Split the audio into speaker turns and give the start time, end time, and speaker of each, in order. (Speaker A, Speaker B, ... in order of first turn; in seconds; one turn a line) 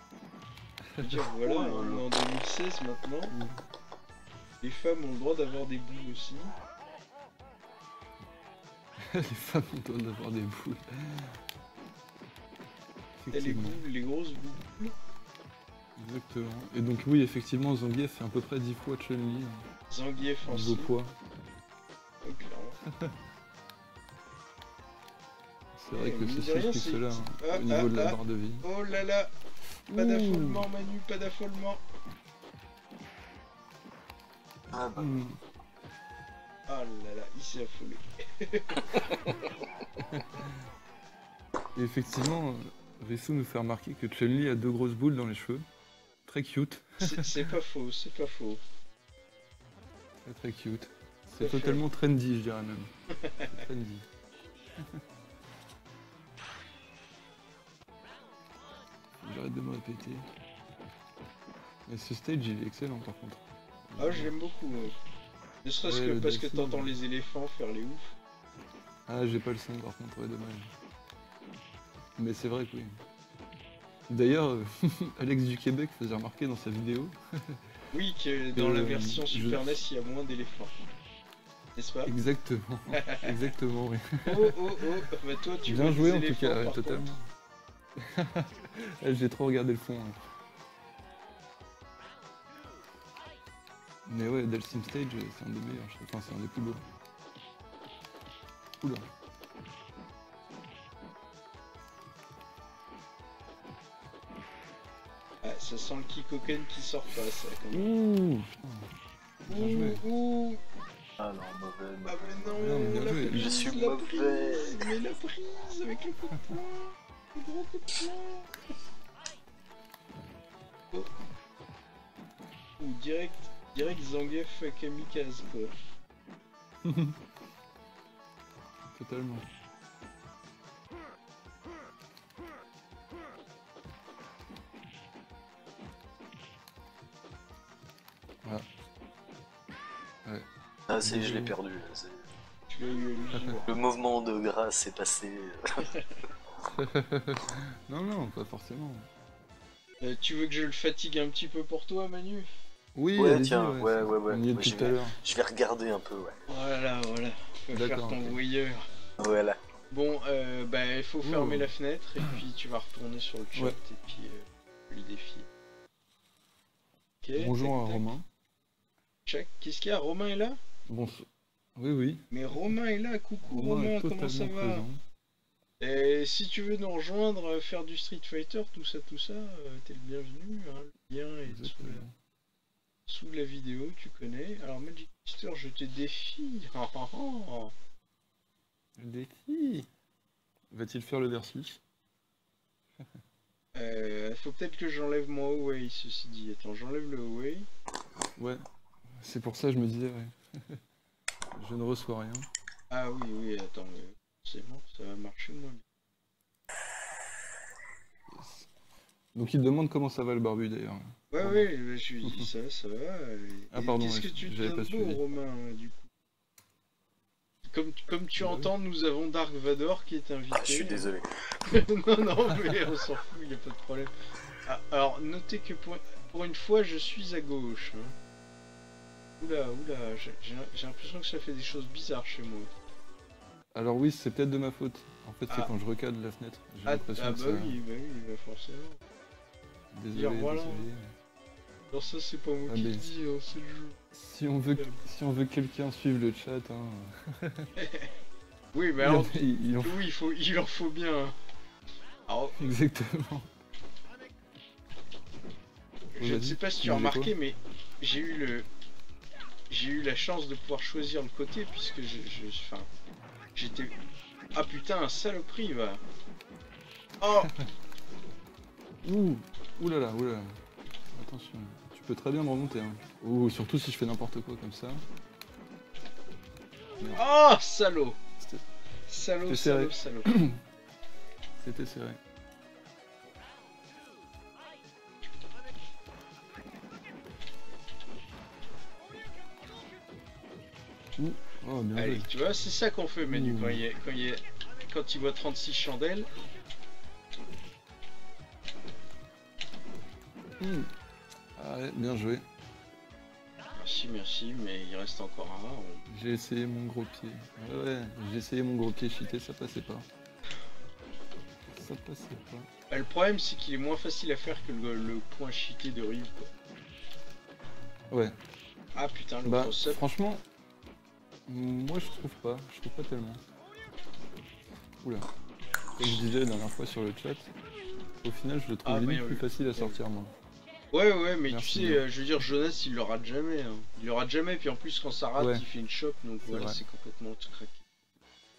Speaker A: 0.9-1.9
Speaker B: 1.0-3.3
Speaker A: 3.3-3.6
Speaker B: 4.6-6.5
Speaker A: 9.0-11.4
Speaker A: 13.2-13.8
Speaker B: 13.3-14.9
Speaker A: 16.0-19.6
Speaker B: 19.9-20.9
Speaker A: 20.5-21.1
Speaker B: 22.2-22.8
Speaker A: 25.8-28.7
Speaker B: 25.9-29.3
Speaker A: 29.9-30.7
Speaker B: 29.9-31.8
Speaker C: 34.7-35.1
Speaker A: 34.8-35.4
Speaker B: 36.7-39.5
Speaker A: 40.0-40.6
Speaker A: 41.7-45.6
Speaker A: 46.2-47.5
Speaker B: 47.0-48.6
Speaker A: 50.2-52.9
Speaker B: 51.4-51.8
Speaker B: 53.2-53.5
Speaker A: 53.5-54.0
Speaker A: 59.2-60.2
Speaker A: 61.9-64.3
Speaker B: 64.0-64.9
Speaker B: 65.6-68.1
Speaker A: 65.8-66.9
Speaker A: 69.1-70.7
Speaker A: 72.2-72.9
Speaker A: 74.1-77.6
Speaker B: 77.9-80.7
Speaker A: 78.5-79.8
Speaker B: 81.8-82.1
Speaker A: 82.0-84.8
Speaker B: 82.9-83.3
Speaker B: 84.2-87.1
Speaker A: 85.6-87.2
Speaker A: 88.0-90.2
Speaker A: 94.0-96.8
Speaker B: 105.4-107.8
Speaker A: 107.7-108.9
Speaker A: 109.5-110.0
Speaker B: 109.5-110.6
Speaker C: 111.2-112.6
Speaker B: 112.0-118.5
Speaker A: 112.6-113.7
Speaker C: 113.3-114.9
Speaker B: 122.8-125.7
Speaker A: 126.8-127.2
Speaker A: 128.9-129.4
Speaker C: 140.9-142.2
Speaker A: 141.0-141.5
Speaker B: 142.7-143.7
Speaker C: 143.7-145.9
Speaker A: 146.6-149.1
Speaker B: 150.0-152.5
Speaker A: 152.9-155.2
Speaker C: 153.1-156.4
Speaker B: 156.5-158.8
Speaker A: 157.7-158.4
Speaker C: 159.2-159.6
Speaker B: 159.9-165.5
Speaker A: 161.2-161.7
Speaker B: 167.2-168.1
Speaker A: 167.4-168.2
Speaker B: 169.2-170.6
Speaker A: 170.9-172.3
Speaker B: 172.3-174.8
Speaker A: 173.5-175.0
Speaker B: 175.8-182.0
Speaker A: 181.5-182.1
Speaker B: 183.1-187.7
Speaker A: 189.0-189.9
Speaker A: 190.7-191.8
Speaker B: 193.7-197.7
Speaker A: 198.4-198.6
Speaker A: 199.2-200.8
Speaker A: 201.6-202.5
Speaker B: 202.9-205.8
Speaker A: 208.3-208.7
Speaker A: 209.3-211.7
Speaker B: 211.3-216.1
Speaker A: 212.2-212.5
Speaker A: 213.7-215.2
Speaker B: 217.7-221.1
Speaker A: 218.4-218.7
Speaker C: 220.5-221.4
Speaker B: 221.7-224.1
Speaker B: 224.6-228.1
Speaker B: 229.4-232.7
Speaker A: 233.7-237.8
Speaker B: 236.8-239.0
Speaker A: 239.9-241.1
Speaker B: 240.1-240.8
Speaker B: 241.9-244.0
Speaker A: 242.7-243.1
Speaker A: 244.1-247.7
Speaker B: 247.8-248.1
Speaker B: 248.7-251.3
Speaker A: 249.0-250.0
Speaker B: 252.3-252.6
Speaker A: 252.6-253.5
Speaker B: 256.1-258.7
Speaker A: 256.2-257.3
Speaker B: 259.7-262.9
Speaker B: 263.6-263.9
Speaker B: 264.5-266.0
Speaker B: 267.2-267.5
Speaker A: 269.0-270.6
Speaker A: 271.1-275.0
Speaker B: 277.1-278.2
Speaker B: 279.1-280.4
Speaker A: 279.5-280.6
Speaker A: 281.6-282.2
Speaker A: 291.2-292.3
Speaker B: 291.9-296.3
Speaker A: 293.2-293.8
Speaker A: 300.6-300.9
Speaker A: 301.6-302.4
Speaker B: 303.8-306.0
Speaker A: 306.1-310.1
Speaker A: 311.7-312.7
Speaker B: 312.9-316.5
Speaker A: 318.1-318.3
Speaker B: 318.9-320.0
Speaker A: 319.4-320.4
Speaker A: 321.5-323.4
Speaker A: 325.0-325.3
Speaker A: 325.9-327.5
Speaker A: 328.2-330.3
Speaker B: 328.8-330.0
Speaker B: 330.9-337.8
Speaker A: 331.5-332.0
Speaker A: 335.4-335.6
Speaker A: 336.4-336.8